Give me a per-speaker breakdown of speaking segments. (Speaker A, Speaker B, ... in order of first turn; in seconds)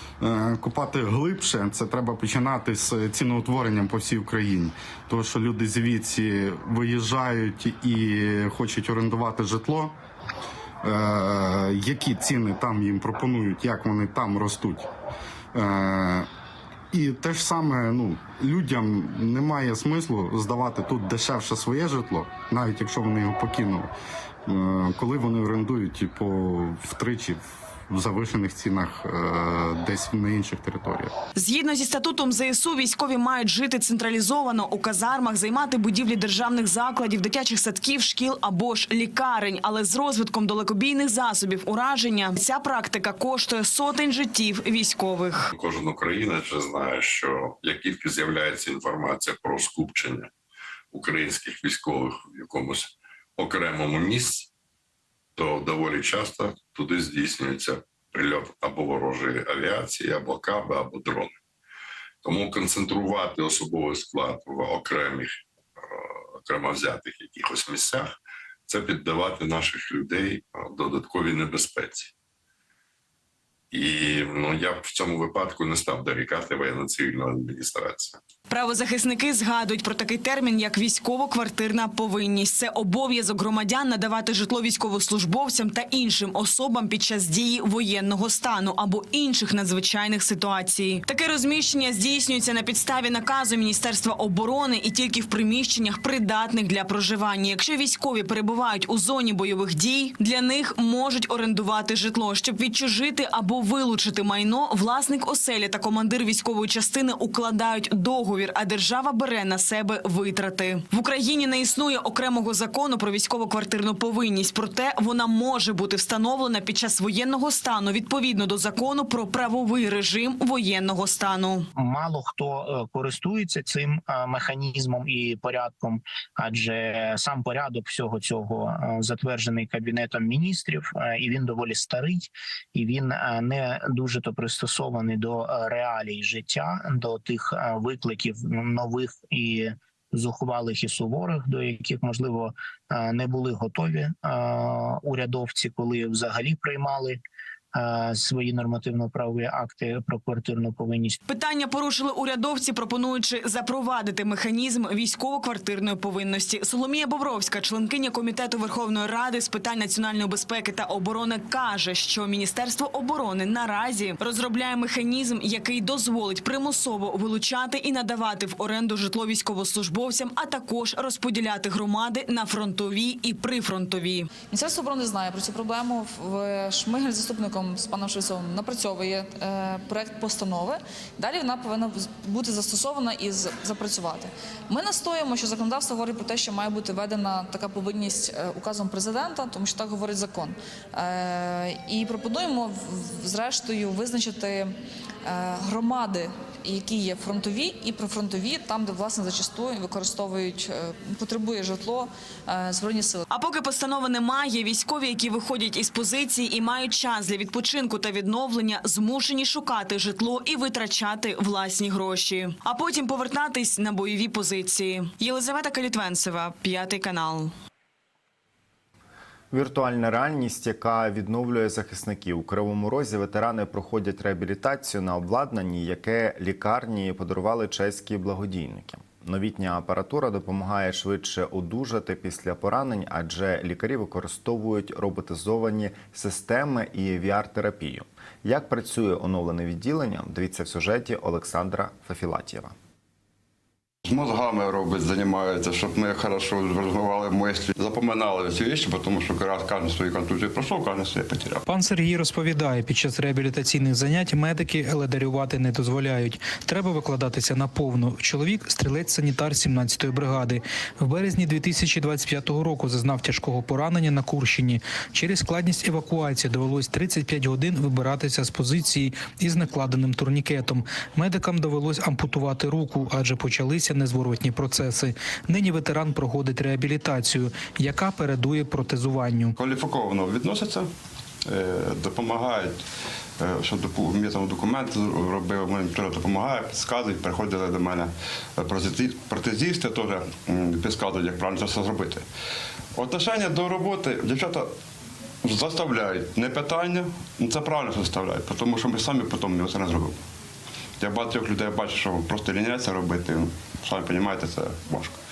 Speaker A: 0.2-10.0, 10.8-14.9, 15.5-16.3, 16.9-23.9, 24.5-31.1
Speaker B: 31.4-45.5, 78.5-121.7, 151.3-174.3, 203.3-217.5
Speaker C: 45.5-50.3, 50.9-54.5, 55.4-61.4, 62.2-68.2, 68.7-72.1, 73.7-78.2
Speaker D: 121.8-147.2, 147.7-151.2
Speaker E: 174.5-203.2
Speaker F: 219.5-242.7
Speaker G: 244.1-251.6, 279.6-280.9, 281.5-282.8, 283.4-292.2, 293.0-294.7, 295.4-300.1, 301.0-305.1
Speaker H: 251.7-279.6